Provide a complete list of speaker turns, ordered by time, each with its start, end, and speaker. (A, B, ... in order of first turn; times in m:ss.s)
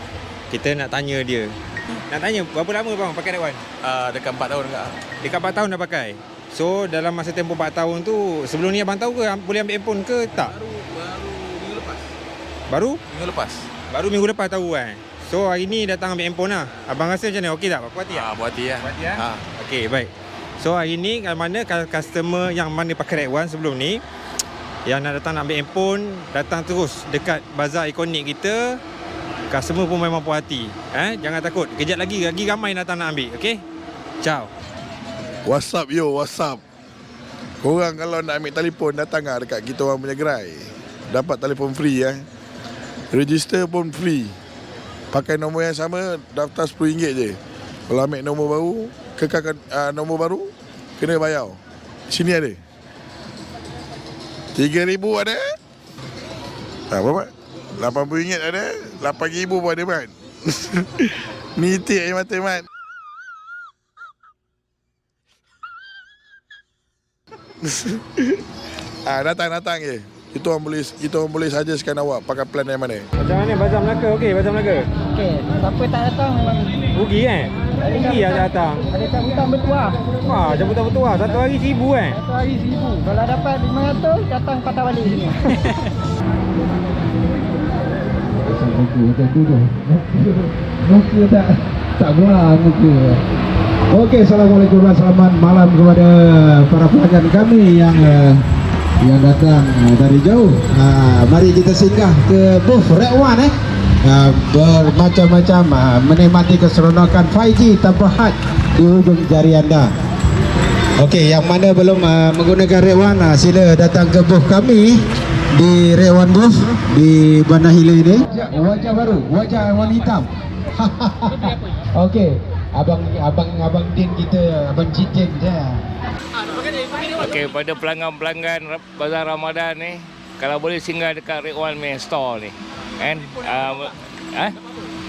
0:00.5-0:01.5 A
0:02.1-0:03.6 A
0:03.8-0:04.9 B
0:05.2-0:10.6 A
0:11.0-0:11.9 B
0:12.7-0:13.0 A
0:13.1-0:13.6 B
0:13.9-0:24.0 A
0:18.1-0:19.4 B
0:24.9-0:28.8 A
0:29.5-0:33.6 A
0:34.2-0:34.5 A
0:35.5-0:36.6 C
0:37.6-0:42.3 C
0:43.1-0:44.3 C
0:45.1-0:47.4 C
0:47.9-0:52.6 C
0:54.6-0:55.4 C
0:56.9-1:02.7 C
1:07.6-1:08.3 C
1:09.0-1:13.1 C
1:13.2-1:14.9 A
1:15.2-1:16.7 D
1:16.9-1:18.9 A
1:19.0-1:19.9 D
1:20.2-1:22.2 A
1:22.4-1:25.3 D
1:28.4-1:33.2 E
1:33.9-1:38.4 E
1:39.0-1:43.5 E
1:44.0-1:49.9 E
1:51.0-1:55.0 E
1:55.5-2:05.8 E
2:07.2-2:14.6 F